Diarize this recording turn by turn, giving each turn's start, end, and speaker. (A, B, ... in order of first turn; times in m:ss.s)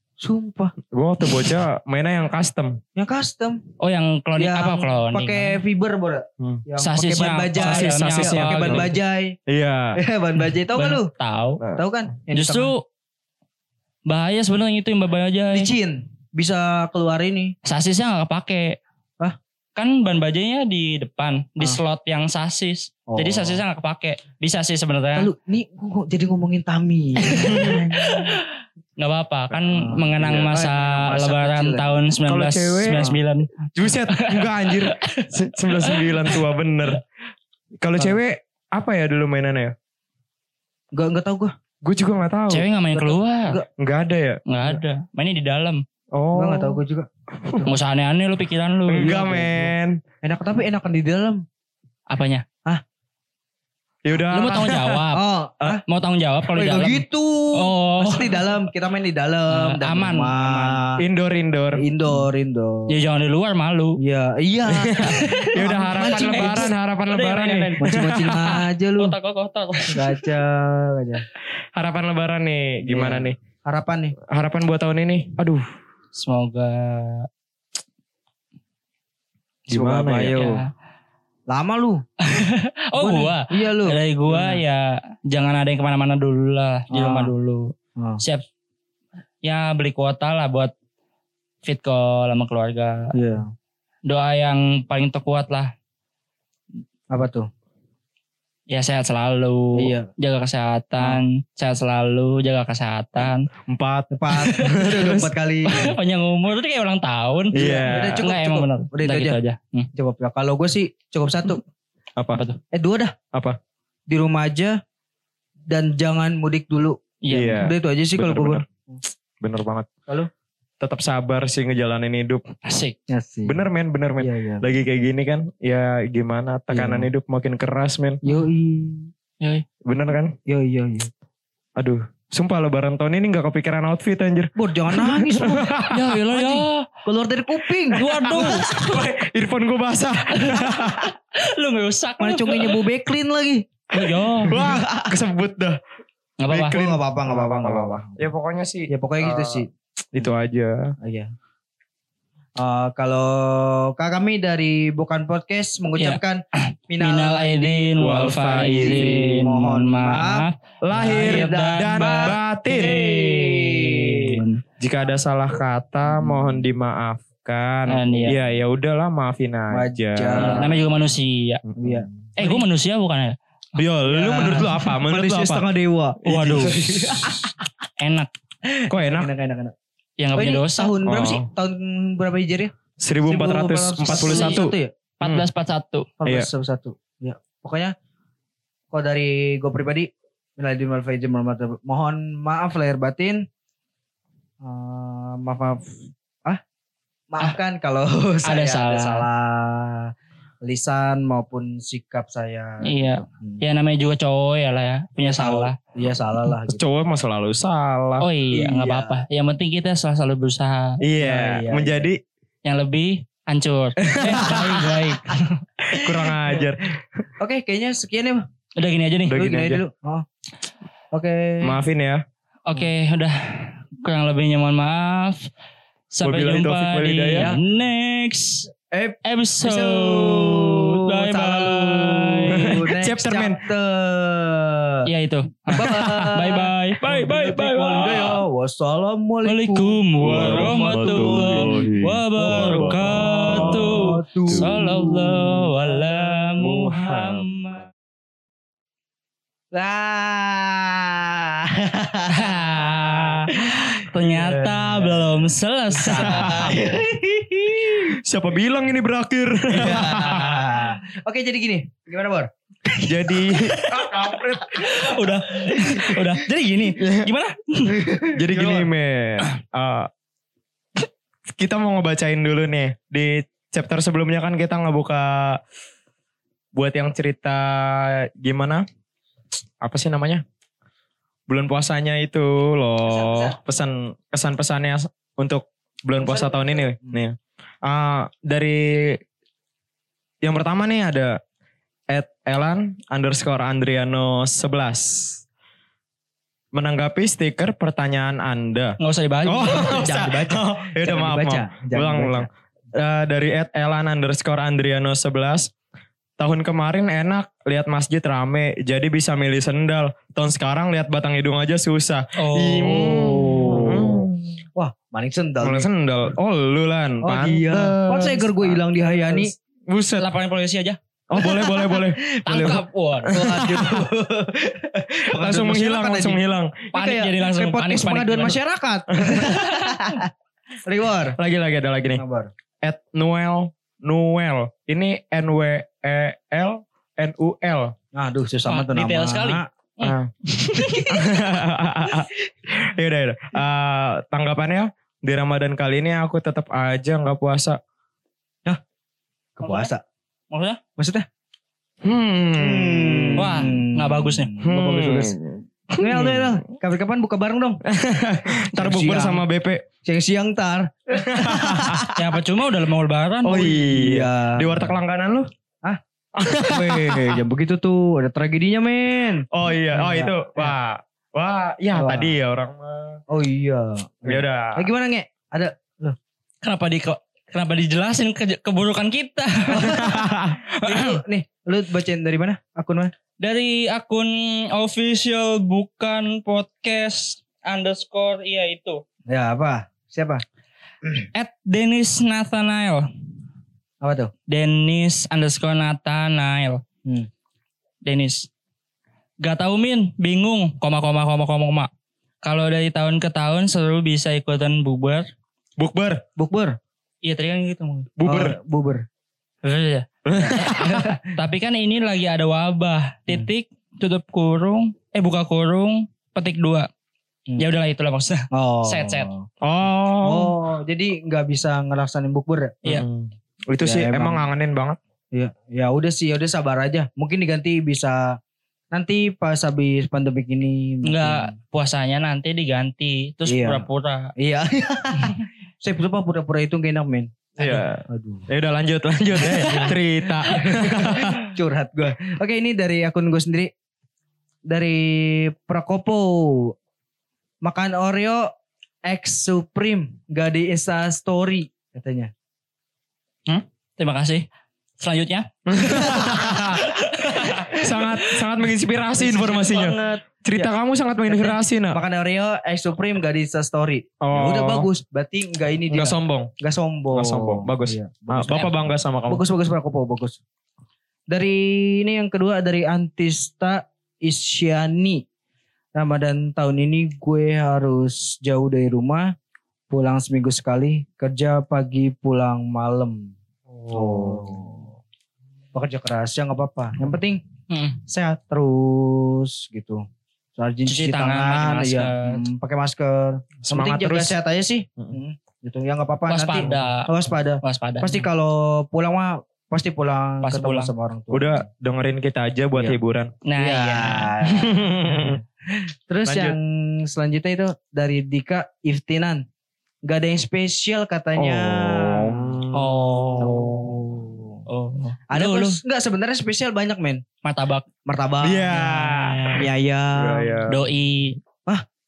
0:00.2-0:00.7 A
0:00.9-0:02.8 B
0:03.0-0:03.6 A
0:03.8-0:05.6 C
0:04.4-0:09.4 A
0:06.8-0:08.9 C
0:07.6-0:08.9 B
0:09.5-0:10.0 B
0:10.0-0:11.1 A
0:10.7-0:11.6 C
0:11.7-0:12.7 A
0:12.3-0:12.8 C
0:14.0-0:15.7 C
0:15.5-0:17.5 A
0:17.6-0:18.8 C
0:19.8-0:25.3 C
0:23.1-0:23.6 A
0:25.1-0:28.4 A
0:27.2-0:28.5 C
0:27.4-0:27.8 B
0:29.0-0:33.5 C
0:29.7-0:32.0 A
0:32.2-0:33.1 B
0:33.7-0:37.0 B
0:34.1-0:36.4 C
0:37.8-0:39.7 B
0:40.9-0:41.5 A
0:41.8-0:42.6 B
0:42.5-0:43.6 C
0:42.9-0:43.6 A
0:43.8-0:44.4 B
0:44.5-0:45.8 C
0:46.1-0:46.8 B
0:46.3-0:47.7 A
0:47.6-0:49.6 C
0:48.9-0:50.0 B
0:49.0-0:49.6 A
0:50.2-0:51.4 A
0:52.1-0:52.4 C
0:54.0-0:55.0 B
0:54.3-0:55.2 C
0:55.1-0:55.8 A
0:55.8-0:57.0 C
0:56.5-1:01.0 A
0:57.5-0:58.6 C
0:59.5-1:00.8 C
1:01.0-1:01.8 B
1:01.8-1:02.9 A
1:02.9-1:04.0 C
1:04.0-1:06.7 A
1:04.7-1:08.6 B
1:05.1-1:07.8 C
1:07.8-1:09.1 A
1:08.4-1:10.2 C
1:09.9-1:11.2 A
1:11.8-1:13.4 B
1:12.8-1:14.1 A
1:14.3-1:15.7 B
1:16.1-1:17.3 C
1:19.7-1:20.4 B
1:19.7-1:20.6 A
1:20.3-1:20.7 C
1:21.5-1:22.0 A
1:22.2-1:28.4 C
1:23.0-1:24.6 A
1:26.9-1:27.3 A
1:29.4-1:30.7 C
1:31.6-1:33.1 C
1:33.1-1:33.5 A
1:34.0-1:35.7 C
1:37.1-1:37.5 A
1:38.7-1:43.5 C
1:39.7-1:40.1 A
1:43.6-1:45.3 B
1:44.1-1:45.9 A
1:44.4-1:44.8 C
1:45.7-1:49.9 C
1:47.5-1:48.2 B
1:47.6-1:49.4 A
1:49.9-1:51.6 A
1:52.2-1:52.4 B
1:52.3-1:52.6 C
1:52.7-1:53.1 A
1:53.3-1:53.6 B
1:54.1-1:54.8 A
1:55.7-1:57.0 A
1:57.2-1:57.7 C
1:57.3-1:58.6 B
1:57.6-1:59.0 A
1:59.4-1:59.9 B
2:00.8-2:02.4 B
2:02.6-2:03.0 C
2:03.1-2:03.6 A
2:03.4-2:08.2 B
2:04.2-2:04.6 A
2:06.7-2:07.1 A
2:08.2-2:09.1 A
2:09.8-2:10.3 B
2:10.5-2:11.1 A
2:11.8-2:16.2 B
2:14.5-2:15.7 A
2:15.9-2:16.9 C
2:16.3-2:18.8 A
2:17.9-2:19.0 C
2:18.3-2:21.1 B
2:20.3-2:22.8 C
2:22.2-2:23.6 A
2:23.9-2:24.6 C
2:24.4-2:25.1 A
2:24.4-2:25.8 B
2:26.4-2:26.8 C
2:26.5-2:30.9 B
2:26.7-2:28.2 A
2:28.9-2:29.7 A
2:31.0-2:31.3 A
2:32.6-2:44.4 A
2:37.0-2:44.6 C
2:38.0-2:39.1 B
2:40.8-2:43.0 B
2:44.8-2:50.7 B
2:46.1-2:46.6 A
2:47.9-2:48.4 C
2:49.7-2:50.7 A
2:50.4-2:51.6 C
2:51.7-2:52.0 B
2:51.8-2:52.6 A
2:52.4-2:53.4 C
2:53.8-2:55.6 B
2:54.1-2:57.5 A
2:54.4-2:54.9 C
2:56.2-2:57.5 B
2:56.2-2:56.8 C
2:58.0-2:58.3 C
2:58.7-2:59.7 A
2:58.9-2:59.3 B
3:00.2-3:01.0 C
3:00.3-3:02.7 A
3:01.0-3:01.5 B
3:03.0-3:05.4 B
3:03.2-3:04.9 A
3:04.1-3:04.6 C
3:05.2-3:06.1 C
3:06.2-3:07.9 A
3:08.9-3:13.4 A
3:14.6-3:16.6 A
3:17.3-3:20.1 A
3:18.4-3:19.2 C
3:20.6-3:23.6 A
3:22.8-3:25.8 C
3:25.2-3:26.8 A
3:26.7-3:28.3 B
3:28.2-3:31.0 C
3:28.5-3:29.2 A
3:31.0-3:32.2 B
3:31.2-3:32.0 A
3:32.6-3:35.6 C
3:34.0-3:35.1 A
3:34.1-3:34.7 B
3:35.9-3:36.8 B
3:35.9-3:36.7 A
3:37.4-3:38.4 A
3:38.8-3:39.4 C
3:39.2-3:39.8 B
3:39.3-3:40.2 A
3:41.1-3:41.8 A
3:41.6-3:42.2 B
3:42.6-3:45.5 C
3:46.1-3:48.7 C
3:46.2-3:47.5 B
3:48.9-3:55.1 A
3:49.2-3:52.8 C
3:52.5-3:53.6 B
3:55.0-3:58.4 C
3:55.7-4:06.8 A
3:55.8-3:56.3 B
3:59.4-4:07.9 C
4:00.2-4:04.7 B
4:06.6-4:07.4 B
4:09.7-4:14.0 A
4:12.3-4:16.8 C
4:14.2-4:16.9 B
4:16.0-4:18.1 A
4:18.1-4:20.7 B
4:19.7-4:22.5 A
4:23.0-4:25.1 B
4:23.7-4:24.1 C
4:24.8-4:28.0 C
4:24.9-4:26.2 A
4:27.0-4:27.3 B
4:27.9-4:28.9 A
4:28.3-4:30.1 B
4:31.5-4:35.6 B
4:36.7-4:38.8 B
4:39.8-4:40.4 B
4:41.5-4:49.2 B
4:43.0-4:43.6 A
4:46.2-4:47.2 A
4:50.4-4:51.4 B
4:52.1-4:55.4 B
4:56.7-5:05.7 B
4:59.0-5:00.0 C
4:59.6-5:02.5 A
5:06.4-5:14.4 B
5:12.4-5:13.3 C
5:12.9-5:15.9 A
5:15.6-5:20.3 B
5:17.2-5:19.5 A
5:20.2-5:21.0 C
5:21.3-5:24.0 B
5:21.3-5:26.4 A
5:22.4-5:23.4 C
5:25.4-5:26.8 B
5:26.9-5:28.6 C
5:26.9-5:30.3 A
5:29.2-5:29.5 B
5:29.4-5:30.2 C
5:30.8-5:31.4 A
5:31.4-5:32.2 B
5:32.2-5:32.5 A
5:32.8-5:37.9 B
5:38.1-5:39.7 A
5:38.7-5:41.1 C
5:40.0-5:40.3 B
5:40.7-5:41.0 A
5:41.1-5:47.8 B
5:49.6-5:50.0 A
5:49.6-5:49.9 C
5:50.5-5:50.8 C
5:51.0-5:51.2 A
5:52.0-5:53.7 B
5:52.6-5:55.4 A
5:53.4-5:54.5 C
5:54.6-5:56.6 B
5:56.0-5:57.8 A
5:57.8-5:59.8 B
5:58.6-5:59.4 A
6:00.0-6:02.2 A
6:01.1-6:02.0 B
6:02.1-6:03.7 C
6:03.4-6:05.5 B
6:03.6-6:04.9 A
6:06.4-6:07.4 B
6:06.6-6:10.7 A
6:09.5-6:13.2 B
6:11.9-6:12.3 A
6:13.3-6:16.2 A
6:14.2-6:14.9 B
6:16.6-6:21.2 C
6:19.7-6:23.1 A
6:19.8-6:20.6 B
6:23.4-6:29.0 C
6:29.3-6:30.4 A
6:31.3-6:33.1 C
6:34.0-6:34.3 A
6:34.5-6:36.8 C
6:38.0-6:38.5 C
6:39.4-6:41.9 C
6:42.4-6:45.3 C
6:45.8-6:46.2 B
6:46.4-6:46.8 A
6:47.2-6:48.1 C
6:48.2-6:48.6 B
6:48.2-6:49.0 A
6:49.6-6:56.9 C
6:50.2-6:51.0 B
6:50.3-6:51.3 A
6:57.6-6:59.3 C
6:58.5-6:59.5 A
6:59.6-7:00.5 B
7:00.2-7:02.8 A
7:02.8-7:05.0 B
7:03.8-7:04.4 A
7:05.3-7:08.4 A
7:08.9-7:11.5 A
7:11.0-7:14.3 C
7:13.4-7:13.8 A
7:14.4-7:17.3 A
7:17.6-7:21.4 B
7:18.1-7:18.5 A
7:19.4-7:23.7 A
7:24.7-7:26.7 A
7:27.6-7:28.5 A
7:29.0-7:32.3 A
7:33.5-7:34.4 C
7:35.0-7:38.4 C
7:35.7-7:36.9 B
7:35.9-7:36.6 A
7:37.4-7:37.8 A
7:37.7-7:42.0 B
7:39.2-7:40.2 A
7:41.3-7:48.7 A
7:44.2-7:44.9 B
7:45.9-7:46.5 B
7:47.1-7:49.4 B
7:49.3-7:50.4 A
7:51.3-7:55.2 A
7:55.9-7:59.3 A
7:59.9-8:03.3 A
8:03.7-8:04.7 B
8:03.9-8:04.9 A
8:05.7-8:07.4 A
8:07.7-8:08.0 C
8:08.1-8:10.0 A
8:10.6-8:21.6 A
8:10.9-8:12.4 C
8:13.6-8:14.4 B
8:16.3-8:17.1 C
8:17.6-8:18.3 C
8:20.4-8:20.9 C
8:21.3-8:23.3 B
8:23.4-8:24.3 C
8:23.6-8:29.4 A
8:24.5-8:25.4 B
8:26.2-8:26.6 B
8:30.0-8:32.6 A
8:31.4-8:33.6 B
8:32.7-8:33.9 C
8:33.4-8:34.6 A
8:34.7-8:35.8 C
8:35.3-8:37.2 A
8:37.4-8:37.8 C
8:38.0-8:38.8 A
8:38.4-8:39.6 B
8:38.7-8:39.6 C
8:39.6-8:40.6 A
8:40.2-8:40.8 B
8:40.7-8:41.4 C